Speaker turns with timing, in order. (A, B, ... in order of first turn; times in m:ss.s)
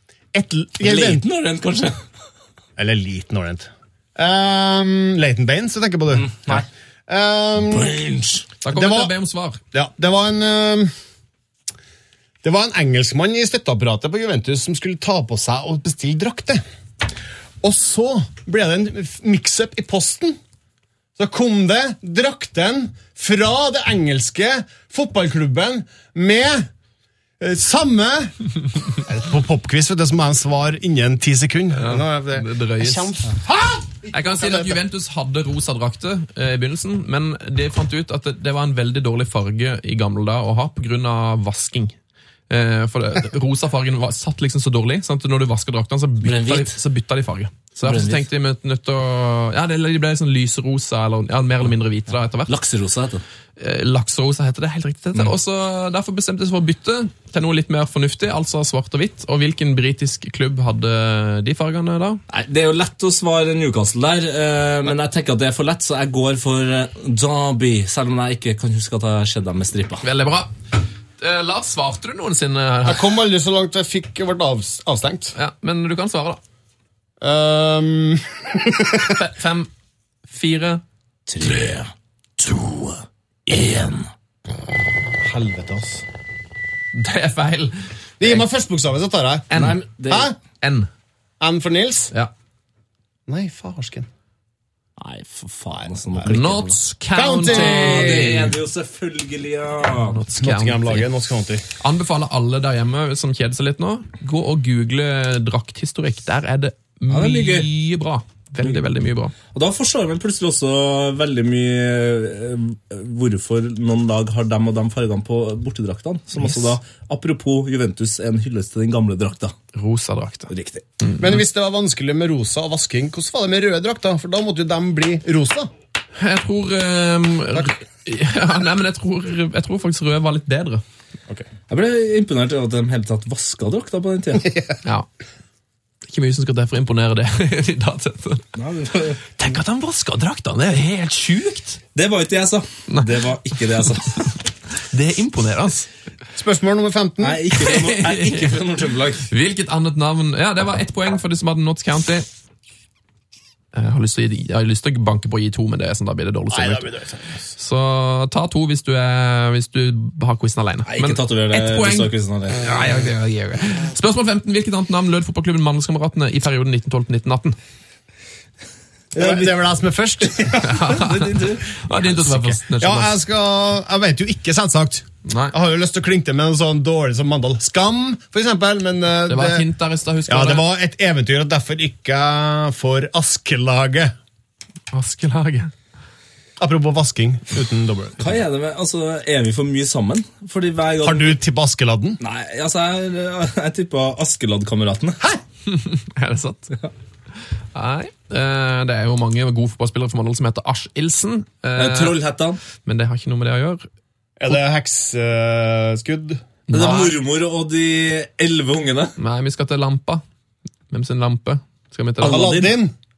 0:00.3-0:01.2 A
0:00.8-0:02.0 B
0:02.8-0:08.0 A
0:06.2-0:06.6 B
0:07.7-0:08.5 B
0:08.6-0:09.6 C
0:08.7-0:09.1 A
0:09.7-0:10.9 A
0:12.4-0:16.6 A
0:17.6-0:20.4 A
0:21.2-0:26.7 A
0:27.4-0:28.3 A
0:28.9-0:34.8 A
0:31.7-0:33.2 C
0:34.1-0:41.9 C
0:42.5-0:52.5 C
0:46.2-0:46.8 B
0:47.8-0:48.2 B
0:52.5-0:53.2 B
0:53.6-1:02.2 C
1:02.3-1:10.0 B
1:10.0-1:10.5 C
1:11.2-1:13.1 C
1:12.8-1:15.3 A
1:15.3-1:16.4 C
1:17.2-1:19.2 A
1:19.1-1:19.7 C
1:20.3-1:20.8 C
1:21.3-1:24.1 B
1:25.2-1:26.0 A
1:26.9-1:28.4 C
1:28.2-1:29.5 A
1:29.5-1:29.8 C
1:29.5-1:30.3 B
1:30.6-1:30.9 C
1:31.4-1:32.1 A
1:33.3-1:34.1 A
1:35.0-1:36.8 B
1:36.2-1:38.6 C
1:37.1-1:38.4 A
1:37.4-1:40.2 B
1:40.1-1:41.1 C
1:40.4-1:41.6 A
1:41.8-1:49.3 C
1:47.1-1:47.7 B
1:49.5-1:59.5 B
1:56.4-1:56.7 C
1:59.7-2:00.5 C
2:00.5-2:00.8 B
2:01.0-2:01.4 C
2:01.2-2:05.7 A
2:06.2-2:10.8 C
2:11.7-2:14.5 B
2:14.4-2:14.8 A
2:16.1-2:18.5 C
2:18.5-2:19.2 B
2:19.4-2:21.8 C
2:21.9-2:24.3 B
2:22.9-2:23.3 C
2:24.9-2:25.9 C
2:26.3-2:27.4 A
2:27.2-2:29.3 B
2:27.5-2:28.6 C
2:29.3-2:32.2 C
2:33.7-2:36.9 C
2:36.5-2:37.5 A
2:37.6-2:47.6 C
2:40.8-2:42.7 B
2:49.1-2:49.5 B
2:49.1-2:50.8 A
2:50.3-2:51.8 B
2:50.6-2:53.1 C
2:52.1-2:59.6 A
2:55.2-2:55.5 C
2:59.3-3:00.7 C
3:00.3-3:04.1 A
3:04.9-3:05.7 C
3:06.6-3:08.4 A
3:08.2-3:11.4 B
3:11.0-3:12.2 A
3:12.2-3:15.2 B
3:15.7-3:16.8 C
3:17.7-3:22.2 C
3:21.7-3:22.6 B
3:22.8-3:23.9 C
3:24.4-3:26.4 A
3:26.7-3:27.2 C
3:26.7-3:29.1 B
3:29.2-3:30.2 C
3:30.9-3:32.7 C
3:32.2-3:32.9 A
3:32.2-3:32.6 B